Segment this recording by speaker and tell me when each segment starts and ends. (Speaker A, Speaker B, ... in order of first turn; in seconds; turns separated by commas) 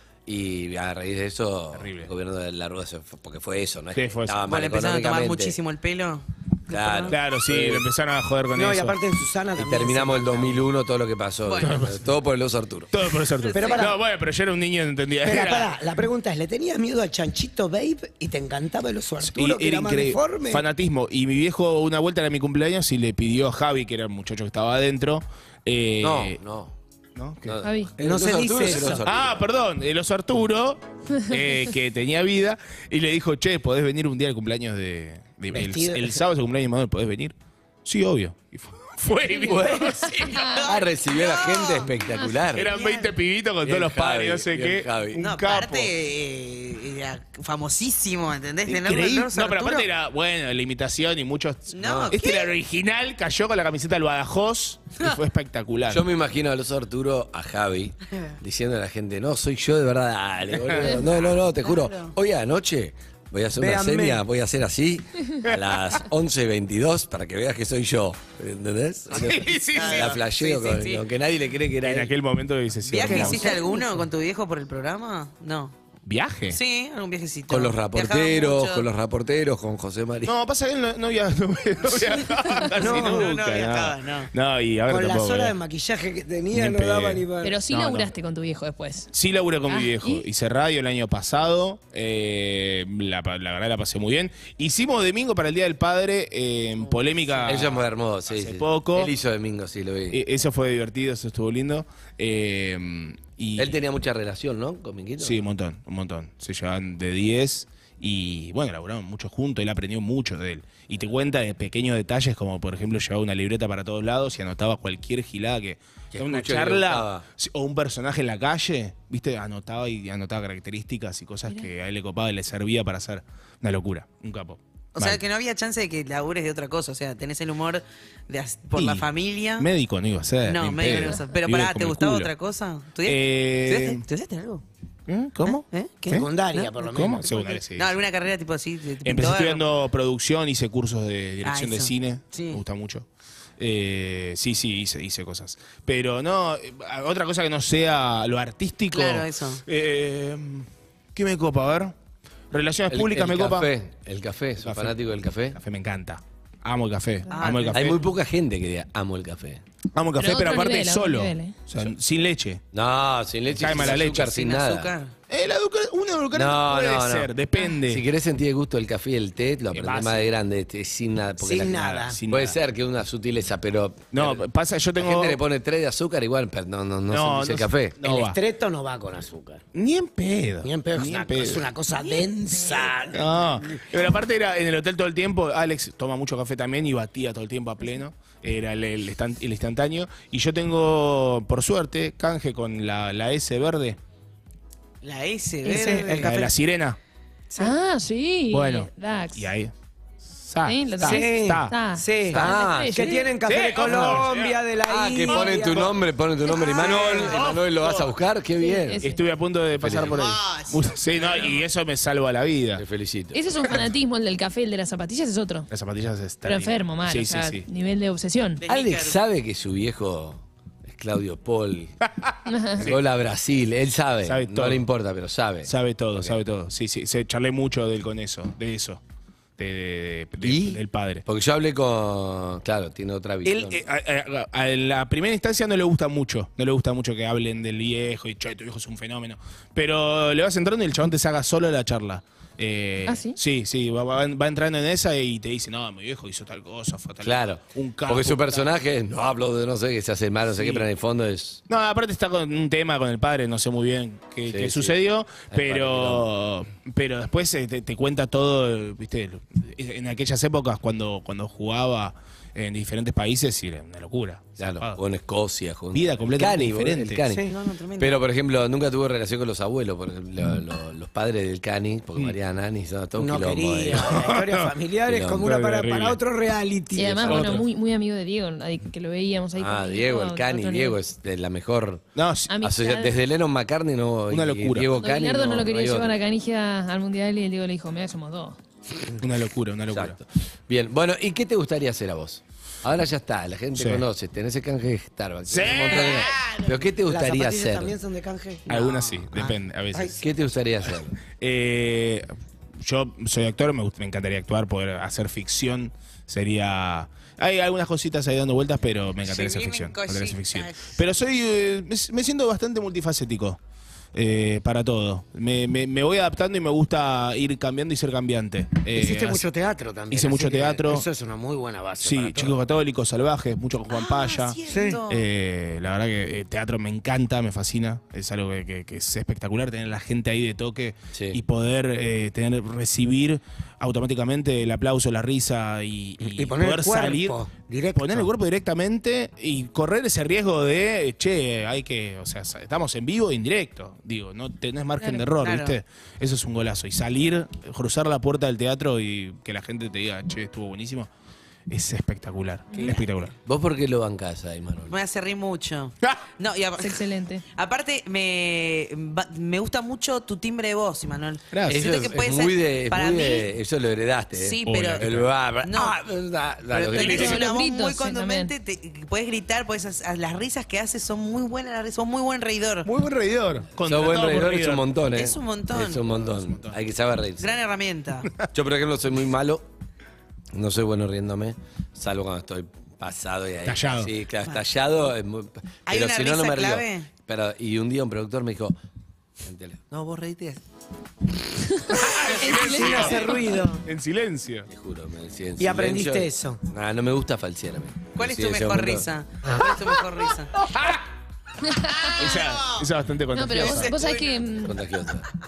Speaker A: 0.2-5.6, Speaker B: 1.7-2.1, Speaker B: 3.9-4.4, Speaker C: 4.4-7.2, Speaker A: 6.7-7.8, Speaker B: 7.1-8.9, Speaker D: 8.5-10.7, Speaker A: 9.6-12.9, Speaker C: 11.4-11.8, Speaker B: 11.6-12.0, Speaker B: 12.9-15.7, Speaker C: 13.4-14.0, Speaker D: 13.5-14.0, Speaker D: 15.2-20.6, Speaker B: 19.2-26.4, Speaker A: 26.0-26.7, Speaker B: 27.1-27.6, Speaker A: 27.4-29.4, Speaker E: 27.6-27.9, Speaker D: 28.0-29.1, Speaker B: 29.0-37.3, Speaker D: 35.5-36.2, Speaker B: 37.8-40.4, Speaker A: 39.4-40.1, Speaker C: 40.4-43.1, Speaker A: 40.6-42.7, Speaker B: 42.5-45.9, Speaker A: 43.6-45.2, Speaker C: 45.2-49.9, Speaker B: 48.7-56.0, Speaker C: 51.7-52.5, Speaker A: 51.8-52.2, Speaker A: 55.9-72.1, Speaker B: 60.5-60.9, Speaker C: 61.6-62.1, Speaker D: 63.6-64.2, Speaker B: 69.1-70.2, Speaker C: 69.1-71.0, Speaker B: 71.8-73.6, Speaker C: 72.8-75.8, Speaker D: 73.0-73.9, Speaker B: 76.0-76.6, Speaker C: 76.5-78.9, Speaker A: 77.5-80.3, Speaker B: 80.2-85.5, Speaker C: 81.9-82.2, Speaker C: 82.8-84.3, Speaker D: 82.8-83.3, Speaker D: 84.9-87.6, Speaker B: 86.5-88.1, Speaker E: 87.4-89.1, Speaker B: 89.1-99.1, Speaker E: 89.7-90.2, Speaker A: 97.4-100.2, Speaker B: 100.1-103.8, Speaker A: 103.6-105.4, Speaker B: 105.2-125.2, Speaker A: 116.1-117.2, Speaker C: 125.0-129.7, Speaker B: 128.7-132.3, Speaker C: 130.4-134.6, Speaker E: 130.9-131.2, Speaker B: 133.0-134.0, Speaker B: 135.1-136.2, Speaker C: 135.4-139.6, Speaker D: 136.1-137.3, Speaker B: 136.8-137.9, Speaker B: 139.0-143.1, Speaker C: 141.4-142.6, Speaker B: 143.6-151.9, Speaker C: 148.9-149.6, Speaker B: 152.5-153.7, Speaker A: 152.9-155.6, Speaker B: 154.6-155.0, Speaker B: 155.5-158.0, Speaker E: 157.3-157.7, Speaker C: 157.3-157.8, Speaker A: 157.7-159.6, Speaker B: 159.9-162.6, Speaker E: 160.2-161.6, Speaker A: 162.7-164.9, Speaker B: 163.5-164.3, Speaker C: 163.7-165.1, Speaker B: 165.3-168.0, Speaker A: 166.3-167.3, Speaker A: 167.8-174.4, Speaker B: 169.7-170.3, Speaker D: 171.4-172.2, Speaker B: 171.7-172.6, Speaker B: 174.1-175.4, Speaker A: 174.9-178.0, Speaker B: 177.1-178.4, Speaker D: 178.0-179.6, Speaker B: 179.7-181.7, Speaker D: 180.6-183.8, Speaker B: 182.9-194.0, Speaker C: 195.0-196.5, Speaker E: 195.6-196.0, Speaker D: 195.7-196.3, Speaker B: 195.8-197.0, Speaker E: 197.6-199.5, Speaker B: 198.5-199.7, Speaker B: 200.4-201.8, Speaker E: 200.6-203.2, Speaker D: 201.0-205.9, Speaker A: 202.3-203.2, Speaker B: 203.4-204.6, Speaker A: 204.8-209.1, Speaker B: 205.2-206.0, Speaker E: 206.5-207.2, Speaker B: 206.6-208.1, Speaker E: 208.6-209.2, Speaker B: 209.0-212.8, Speaker A: 209.8-210.2, Speaker C: 210.0-211.6, Speaker A: 212.8-213.4, Speaker E: 213.3-215.7, Speaker B: 215.7-217.7, Speaker E: 216.4-218.6, Speaker C: 218.6-219.2, Speaker A: 218.7-222.0, Speaker B: 222.0-223.0, Speaker E: 222.5-222.8, Speaker A: 222.8-226.4, Speaker B: 224.2-224.8, Speaker B: 225.7-229.0, Speaker B: 229.6-231.2, Speaker A: 230.4-233.8, Speaker B: 233.4-248.7, Speaker E: 243.1-243.4, Speaker A: 247.2-251.6, Speaker B: 250.6-250.9, Speaker B: 251.7-265.0, Speaker A: 254.5-256.3, Speaker A: 264.6-274.3, Speaker B: 265.9-267.3, Speaker D: 267.3-267.6, Speaker C: 267.4-268.2, Speaker D: 273.1-277.5, Speaker B: 274.1-274.7, Speaker A: 275.1-275.5, Speaker B: 275.4-276.2, Speaker E: 276.9-281.0, Speaker B: 277.3-277.6, Speaker A: 279.6-282.1, Speaker B: 282.1-282.6, Speaker E: 282.5-283.2, Speaker A: 282.6-286.1, Speaker B: 284.3-284.9, Speaker E: 284.9-288.6, Speaker B: 289.2-290.1, Speaker A: 289.9-298.0, Speaker B: 293.8-294.0, Speaker B: 295.5-296.3, Speaker C: 295.9-296.9, Speaker D: 297.1-298.7, Speaker C: 298.7-299.5, Speaker B: 298.7-300.2, Speaker A: 300.2-301.2, Speaker B: 301.3-302.3, Speaker B: 302.8-313.6, Speaker C: 309.2-310.9, Speaker B: 314.1-319.4, Speaker D: 318.9-322.6, Speaker B: 320.1-321.0, Speaker B: 322.0-337.4, Speaker C: 323.9-325.3, Speaker D: 324.6-325.0, Speaker A: 331.1-331.4, Speaker D: 336.2-338.3, Speaker B: 337.9-351.1, Speaker E: 345.0-345.3, Speaker C: 345.4-345.8, Speaker B: 351.7-353.3, Speaker A: 353.4-355.0, Speaker C: 354.9-363.5, Speaker E: 356.8-357.4, Speaker B: 361.5-361.9, Speaker A: 361.6-367.4, Speaker C: 364.4-366.0, Speaker B: 364.6-365.3, Speaker C: 366.7-372.9, Speaker B: 366.9-367.4, Speaker E: 367.0-368.5, Speaker B: 372.8-374.9, Speaker A: 373.8-377.6, Speaker C: 375.1-376.0, Speaker B: 376.2-376.8, Speaker C: 377.4-378.3, Speaker A: 378.5-379.7, Speaker A: 380.5-388.8, Speaker B: 383.6-384.1, Speaker C: 385.9-387.1, Speaker A: 389.4-390.6, Speaker E: 391.7-393.6, Speaker B: 391.9-393.2, Speaker D: 392.1-393.8, Speaker B: 393.8-394.7, Speaker A: 394.7-399.1, Speaker D: 395.6-396.6, Speaker C: 398.1-400.6, Speaker B: 400.6-401.0, Speaker E: 401.7-402.0, Speaker C: 401.9-402.9, Speaker B: 402.2-404.0, Speaker E: 403.3-404.8, Speaker C: 403.5-404.6, Speaker A: 404.6-405.3